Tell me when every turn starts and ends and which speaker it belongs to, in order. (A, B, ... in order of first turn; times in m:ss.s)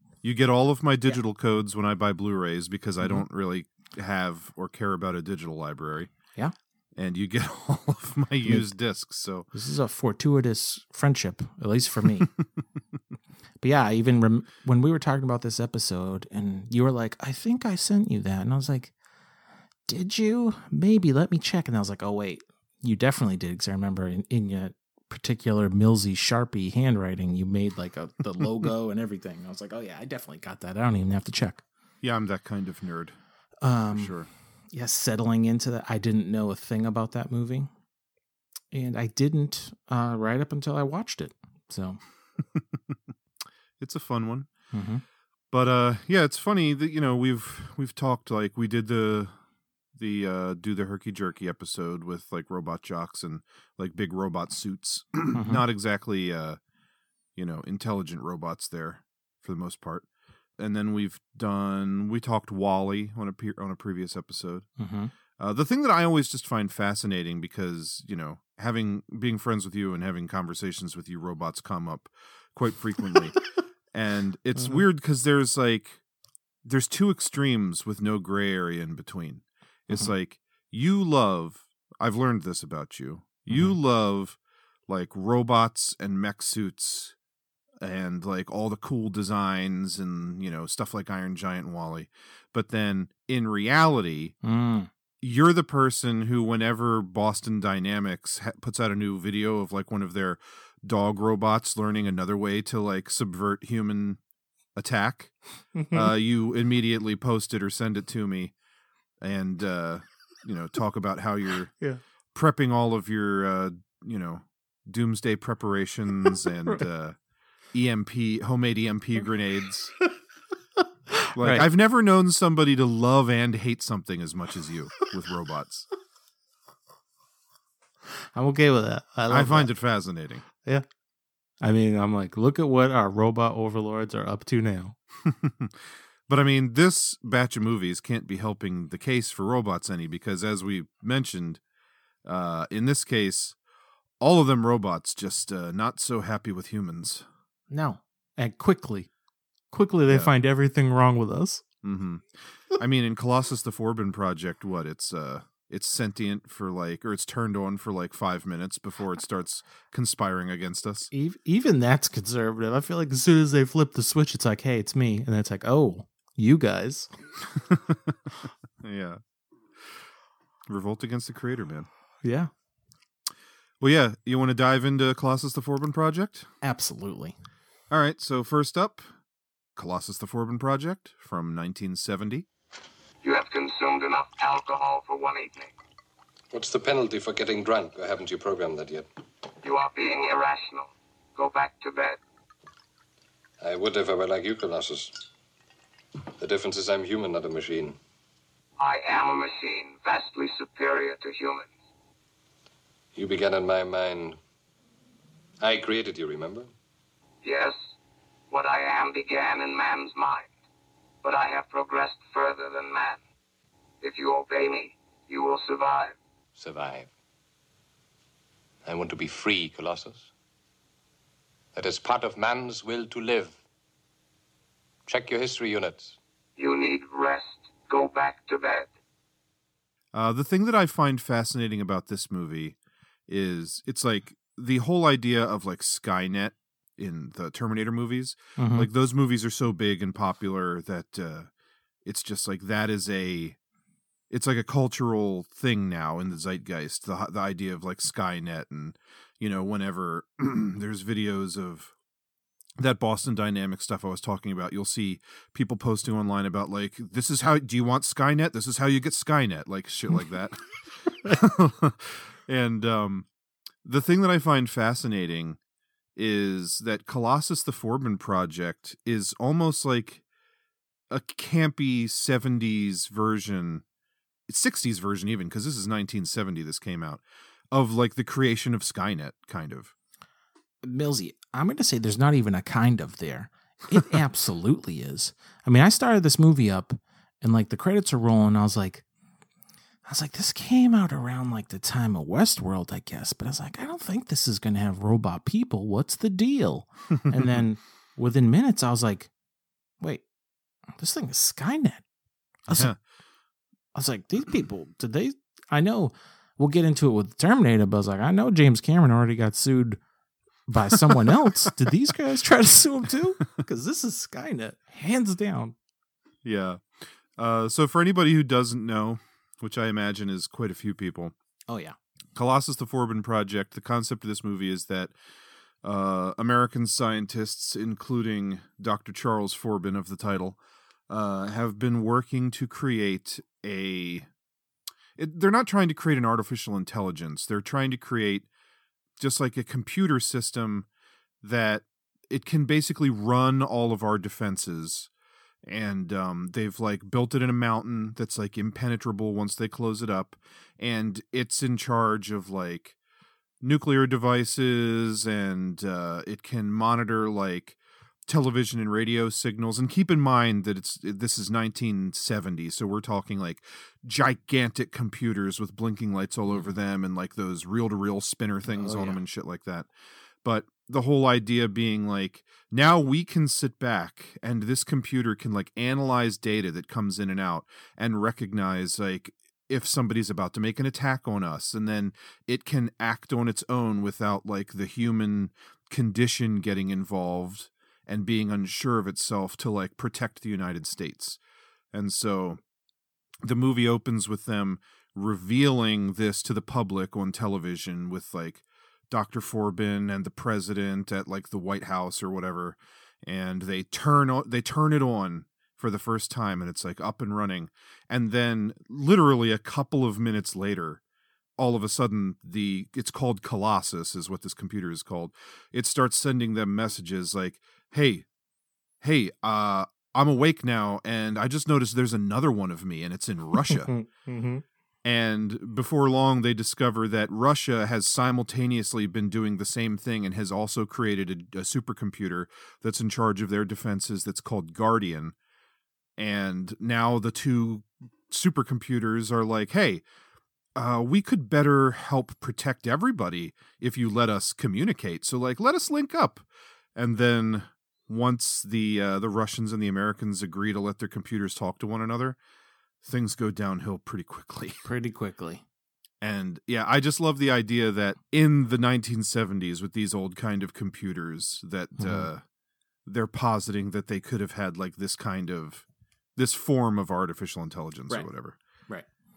0:00.2-0:06.1 A
0:07.0-0:09.5 A
0:09.5-0:12.3 B
0:13.6-0:18.9 B
0:19.9-0:31.6 B
0:32.0-0:33.2 A
0:33.6-0:34.2 B
0:33.9-0:34.3 A
0:34.7-0:37.7 B
0:38.7-0:42.0 B
0:42.6-0:43.0 A
0:43.8-0:44.5 A
0:44.7-0:45.0 B
0:45.5-0:49.4 A
0:50.0-0:56.6 A
0:55.3-0:55.6 B
0:57.4-1:00.1 A
1:00.6-1:04.7 A
1:04.8-1:05.1 B
1:05.4-1:13.4 A
1:13.9-1:16.0 A
1:16.6-1:27.2 A
1:23.5-1:23.8 B
1:27.8-1:34.4 A
1:34.4-1:34.9 B
1:35.2-1:44.2 A
1:44.8-1:45.4 A
1:45.8-1:46.1 B
1:45.9-1:48.5 A
1:49.2-1:51.7 A
1:52.3-1:57.2 A
1:57.7-1:59.9 A
2:01.1-2:01.7 B
2:01.3-2:05.9 A
2:08.3-2:09.7 B
2:09.3-2:10.4 A
2:11.6-2:15.0 B
2:15.2-2:21.6 A
2:22.2-2:23.6 A
2:24.2-2:27.3 A
2:27.7-2:29.1 B
2:29.7-2:31.6 B
2:31.8-2:41.1 A
2:41.1-2:47.1 B
2:47.6-2:48.2 A
2:48.8-2:49.2 A
2:49.8-2:50.1 A
2:50.7-2:51.9 A
2:52.2-2:52.5 B
2:53.8-2:56.5 A
2:56.6-2:57.4 B
2:57.9-2:59.1 A
2:59.8-3:02.5 A
3:03.2-3:05.7 C
3:06.5-3:09.1 D
3:09.6-3:12.2 C
3:13.6-3:15.2 D
3:16.4-3:18.0 D
3:18.8-3:21.7 C
3:23.2-3:24.4 D
3:25.6-3:26.7 D
3:27.4-3:27.8 C
3:28.5-3:30.4 C
3:31.2-3:33.2 C
3:34.0-3:36.1 C
3:36.6-3:37.1 D
3:38.8-3:40.3 D
3:41.8-3:43.6 D
3:45.1-3:46.2 D
3:46.6-3:48.9 C
3:50.1-3:52.8 A
3:53.3-4:01.5 A
3:58.6-3:58.9 B
4:02.0-4:03.6 A
4:04.3-4:11.9 A
4:12.8-4:23.3 A
4:23.8-4:25.6 A
4:26.2-4:30.2 A
4:31.1-4:33.8 A
4:34.5-4:39.9 A
4:40.8-4:49.0 B
4:50.0-4:59.3 B
4:57.2-4:57.6 A
5:01.0-5:02.0 B
5:02.7-5:02.9 B
5:02.7-5:03.0 A
5:04.0-5:10.0 B
5:10.7-5:15.8 B
5:16.4-5:21.3 A
5:21.7-5:22.0 B
5:22.4-5:25.1 A
5:25.8-5:30.6 A
5:31.1-5:34.3 A
5:35.2-5:38.5 A
5:39.2-5:40.9 A
5:41.4-5:45.1 A
5:45.6-5:53.0 A
5:53.6-6:09.9 A
6:08.7-6:09.2 B
6:10.4-6:31.4 A
6:31.9-6:32.6 A
6:33.4-6:51.0 A
6:51.6-6:58.3 A
6:59.0-7:04.0 A
7:03.6-7:04.6 B
7:05.0-7:15.4 A
7:16.2-7:20.0 A
7:20.8-7:32.4 A
7:33.0-7:34.8 A
7:34.8-7:35.6 B
7:36.2-7:42.4 A
7:42.0-7:42.3 B
7:43.1-7:45.8 A
7:46.4-7:48.6 A